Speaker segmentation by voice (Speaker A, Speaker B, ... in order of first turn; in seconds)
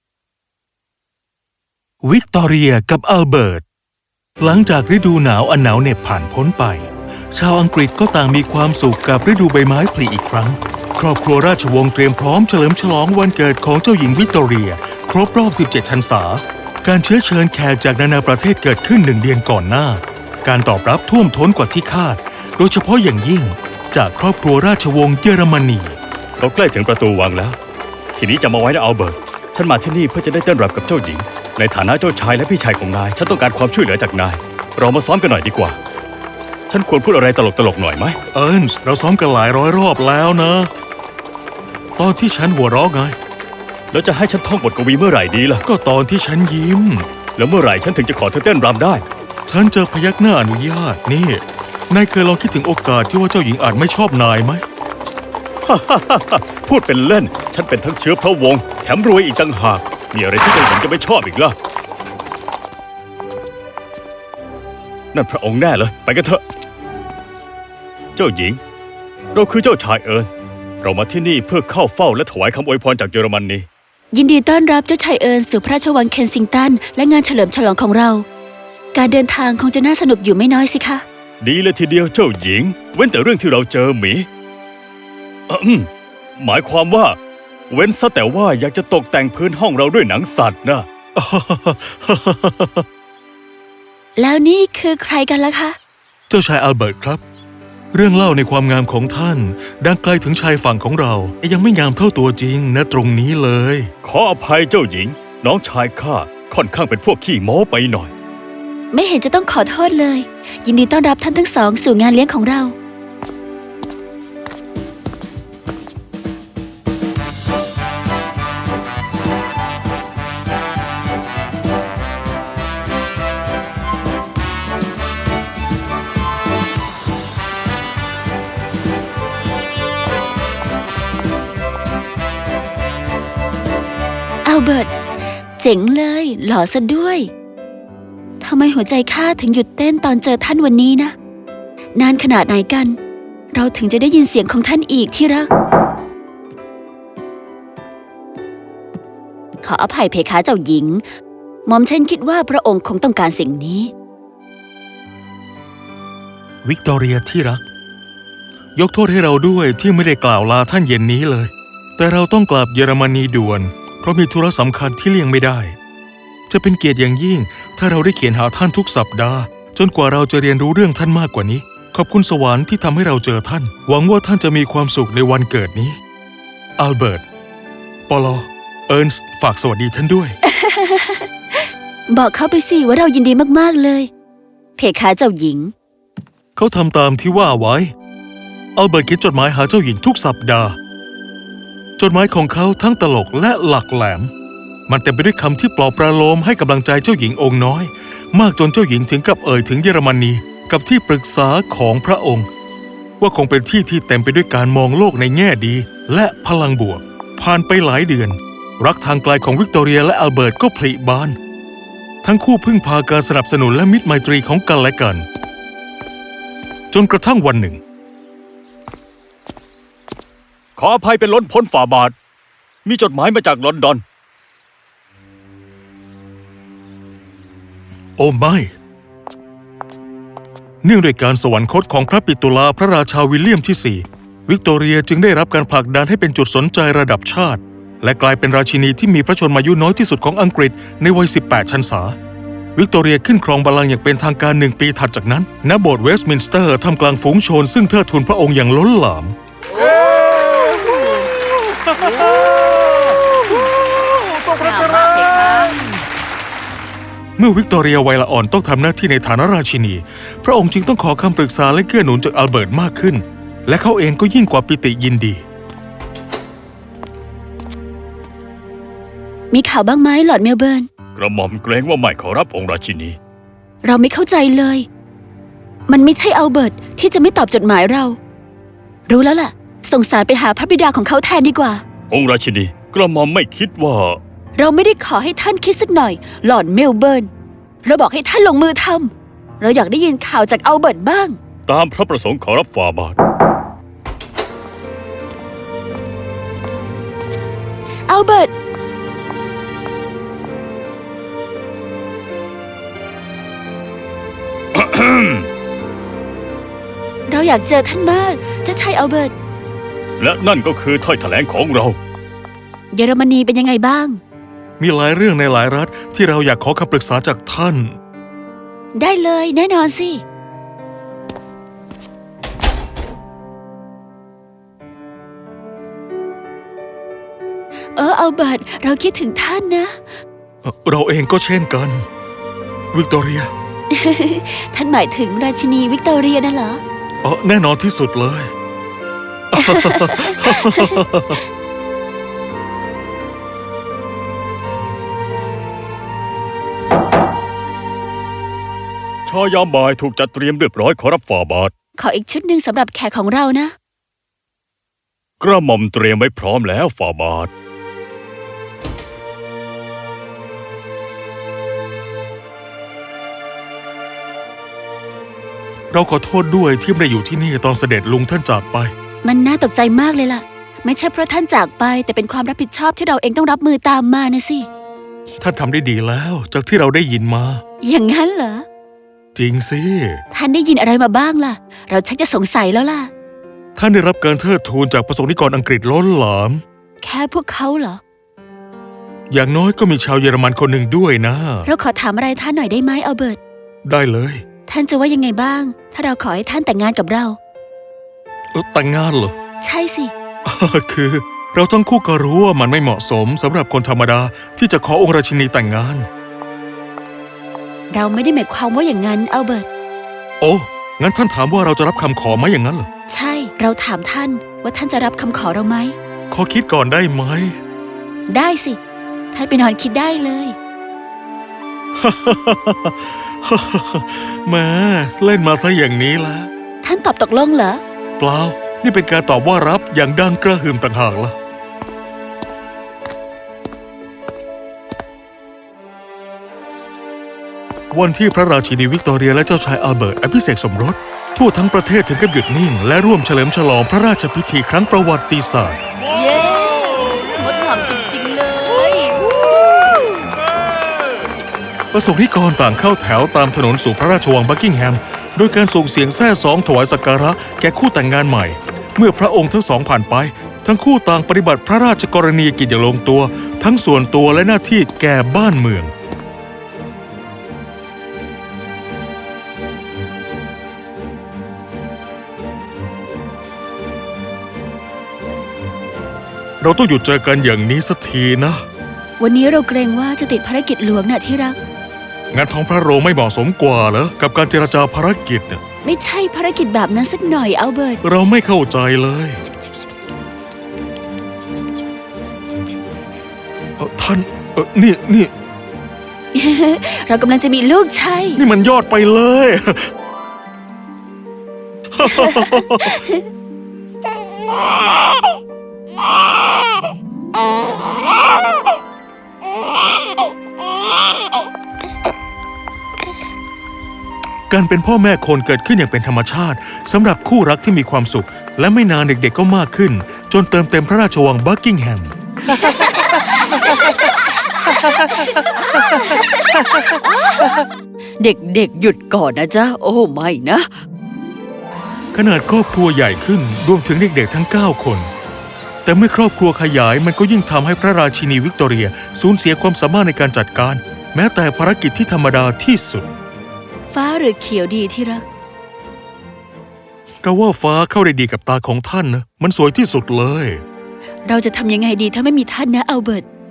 Speaker A: 2.0-3.6, 4.4-26.0, 38.3-40.7, 42.0-43.2, 45.6-47.1, 49.5-54.6, 91.2-92.8, 96.3-97.2, 97.9-103.9, 156.6-157.6, 158.8-165.8, 166.5-176.0, 176.8-177.2, 178.1-180.4, 186.6-187.9, 188.8-190.8, 192.0-194.3, 194.9-202.5, 203.2-211.4, 212.2-215.2, 216.9-217.8, 228.2-228.7, 230.8-242.2, 242.8-255.9, 257.4-265.4, 314.8-318.0, 330.6-332.1, 332.9-333.5, 337.2-338.5, 339.5-341.4, 365.9-368.9, 375.4-377.6, 379.4-380.2, 383.8-386.6, 389.3-391.7, 393.8-394.4, 398.5-399.4, 400.4-406.1, 410.4-412.9, 416.3-417.6, 422.0-426.5, 428.2-431.4, 437.9-445.8, 451.9-465.9, 476.6-478.6, 482.3-485.6, 488.0-489.4, 493.8-495.3, 498.4-499.9, 501.9-503.0, 514.5-522.1, 532.1-535.1, 535.9-543.1, 547.2-550.6
Speaker B: 26.4-27.6, 28.2-35.8, 36.7-38.2, 43.9-45.6, 47.4-49.0, 55.6-61.6, 65.1-66.4, 68.2-68.6, 69.3-70.3, 70.8-73.7, 81.4-84.3, 85.5-87.2, 87.7-90.9, 104.0-108.1, 220.8-222.2, 222.8-224.0, 271.2-273.2, 282.1-284.2, 291.7-293.2, 304.7-305.5, 310.2-312.0, 349.3-351.7, 355.4-357.5
Speaker C: 74.1-78.3, 78.9-81.0, 94.2-95.8, 108.9-112.8, 134.4-134.9, 135.6-137.3, 138.4-141.2, 141.9-143.0, 143.5-145.5, 149.6-151.1, 151.7-153.9, 180.4-181.3, 182.1-184.1, 184.8-185.7, 249.8-251.3, 254.6-255.9, 269.5-270.9, 273.8-274.9, 275.9-278.2, 279.1-281.8, 284.6-287.3, 287.8-291.4, 298.1-298.5, 307.3-309.3, 312.9-314.2, 318.9-320.2, 327.9-330.0, 333.9-336.8, 339.6-341.0, 352.0-353.8, 369.2-374.7, 377.8-378.7, 380.3-383.1, 387.0-388.0, 391.6-393.4, 394.7-397.4, 399.6-400.1, 407.9-409.7, 413.1-416.0, 418.3-418.8, 419.3-420.6, 426.8-427.8, 446.1-450.3, 479.2-481.6, 485.8-488.0, 496.3-498.4, 502.1-503.2, 522.7-523.2, 524.8-526.3, 528.2-530.7, 543.9-545.2, 551.2-553.3